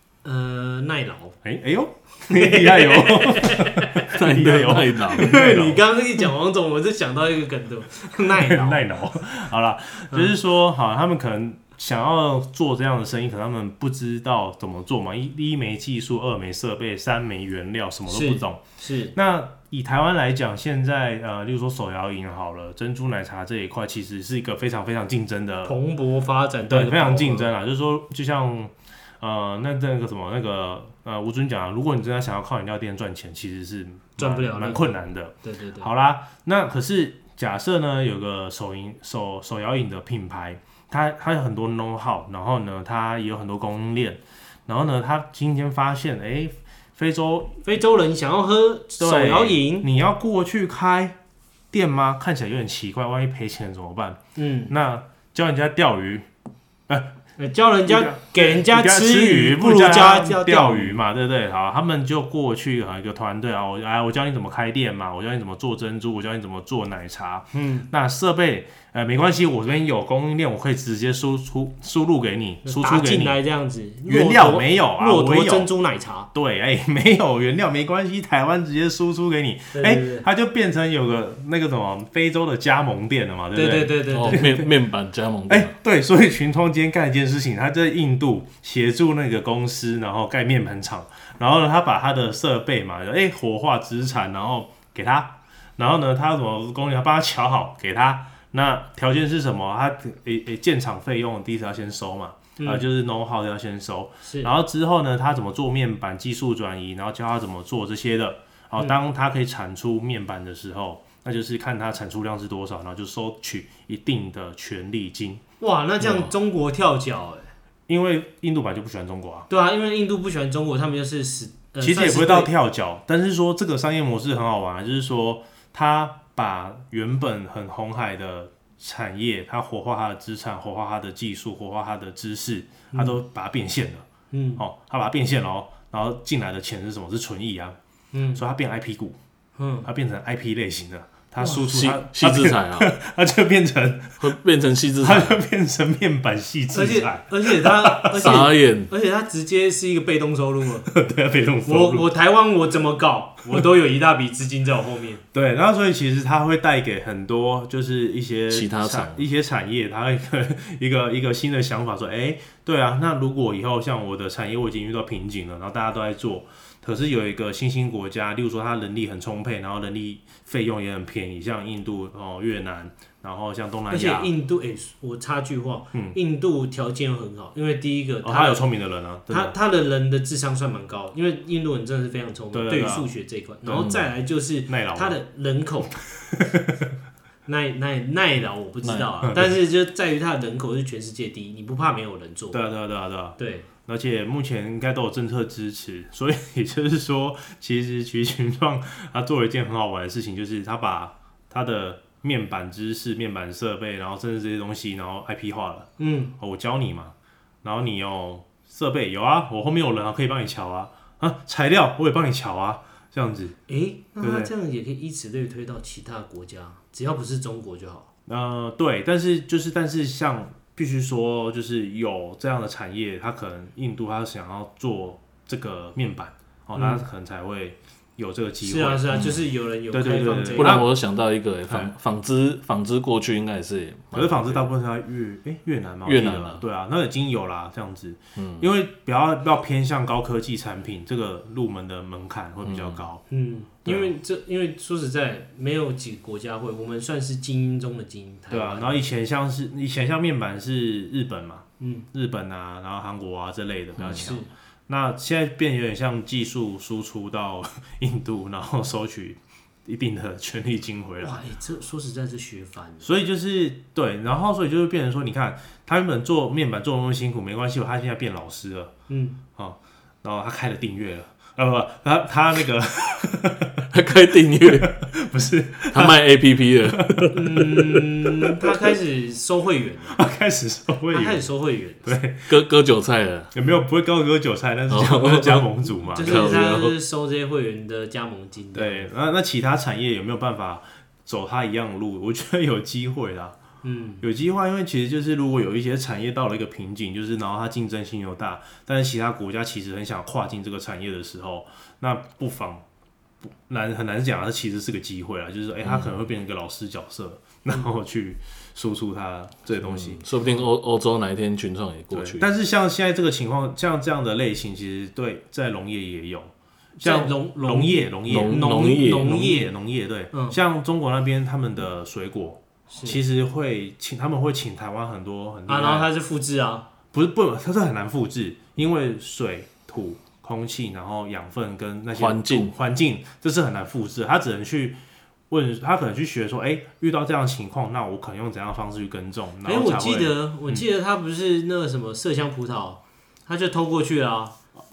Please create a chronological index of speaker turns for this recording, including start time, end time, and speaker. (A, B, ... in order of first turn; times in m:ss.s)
0:00.2-0:01.4 A
0:01.4-0:05.8 B
0:02.3-0:04.0 A
0:04.1-0:05.3 C
0:05.1-0:09.0 A
0:08.2-0:18.6 B
0:18.1-0:19.1 A
0:19.1-0:25.8 B
0:25.6-0:27.5 A
0:26.7-0:47.6 B
0:34.2-0:35.9 A
0:47.6-0:49.9 A
0:49.0-0:51.2 B
0:51.7-0:56.2 B
0:54.4-0:54.7 A
0:56.9-0:57.2 B
0:57.4-1:01.0 A
0:57.8-1:13.4 B
1:07.5-1:07.9 A
1:12.6-1:16.3 A
1:14.0-1:15.7 B
1:16.3-1:24.7 B
1:19.7-1:20.2 A
1:23.5-1:24.4 A
1:24.1-1:25.7 C
1:25.5-1:55.4 B
1:42.6-1:42.8 A
1:44.2-1:44.5 A
1:55.6-1:57.5 A
1:56.0-1:56.3 C
1:57.9-1:59.5 B
1:59.5-2:02.5 A
2:01.8-2:14.0 B
2:12.9-2:13.2 A
2:14.3-2:14.6 A
2:14.6-2:17.8 B
2:18.1-2:18.4 A
2:18.3-2:19.2 B
2:19.6-2:19.9 A
2:19.8-2:24.4 B
2:21.4-2:22.9 C
2:24.2-2:25.4 C
2:25.0-2:28.4 B
2:26.7-2:30.9 A
2:28.2-2:28.9 C
2:30.9-2:32.1 B
2:31.6-2:35.2 A
2:35.3-2:54.3 B
2:38.5-2:39.2 C
2:53.9-2:58.7 A
2:58.2-2:59.5 B
2:59.3-3:06.0 A
3:02.5-3:03.1 B
3:03.7-3:04.1 C
3:04.7-3:05.2 B
3:07.4-3:12.6 A
3:08.8-3:09.5 C
3:12.5-3:33.6 B
3:13.4-3:13.7 A
3:26.0-3:26.3 A
3:33.7-3:38.1 A
3:34.2-3:34.5 B
3:38.2-3:49.3 B
3:46.8-3:47.0 A
3:48.6-3:50.9 A
3:49.1-3:49.4 C
3:49.9-3:50.9 B
3:50.5-3:54.6 C
3:51.7-3:51.9 B
3:54.1-4:03.2 B
3:56.0-3:56.6 C
3:58.4-3:58.7 C
4:02.6-4:03.0 C
4:03.3-4:09.0 A
4:03.8-4:04.1 B
4:08.5-4:21.4 B
4:11.8-4:12.1 A
4:14.0-4:14.3 C
4:14.0-4:14.5 A
4:21.2-4:23.1 A
4:23.0-4:28.9 B
4:29.1-4:29.4 A
4:29.6-4:33.8 B
4:33.9-4:35.0 C
4:34.8-4:36.2 B
4:35.9-4:37.4 C
4:36.9-4:38.9 B
4:37.3-4:40.2 A
4:40.1-4:41.5 B
4:41.1-4:42.1 A
4:42.0-4:42.6 B
4:42.5-4:43.5 C
4:43.5-4:46.5 B
4:44.9-4:46.9 C
4:46.1-4:49.1 A
4:48.7-4:53.6 B
4:53.8-4:54.2 A
4:54.2-5:02.8 B
5:03.6-5:10.2 B
5:05.8-5:06.1 C
5:09.8-5:12.5 C
5:12.1-5:26.1 B
5:17.0-5:19.7 A
5:18.2-5:19.5 C
5:20.3-5:20.6 A
5:22.9-5:23.2 A
5:25.7-5:26.9 A
5:27.1-5:35.0 B
5:32.1-5:32.7 C
5:35.5-5:40.8 B
5:39.6-5:44.6 A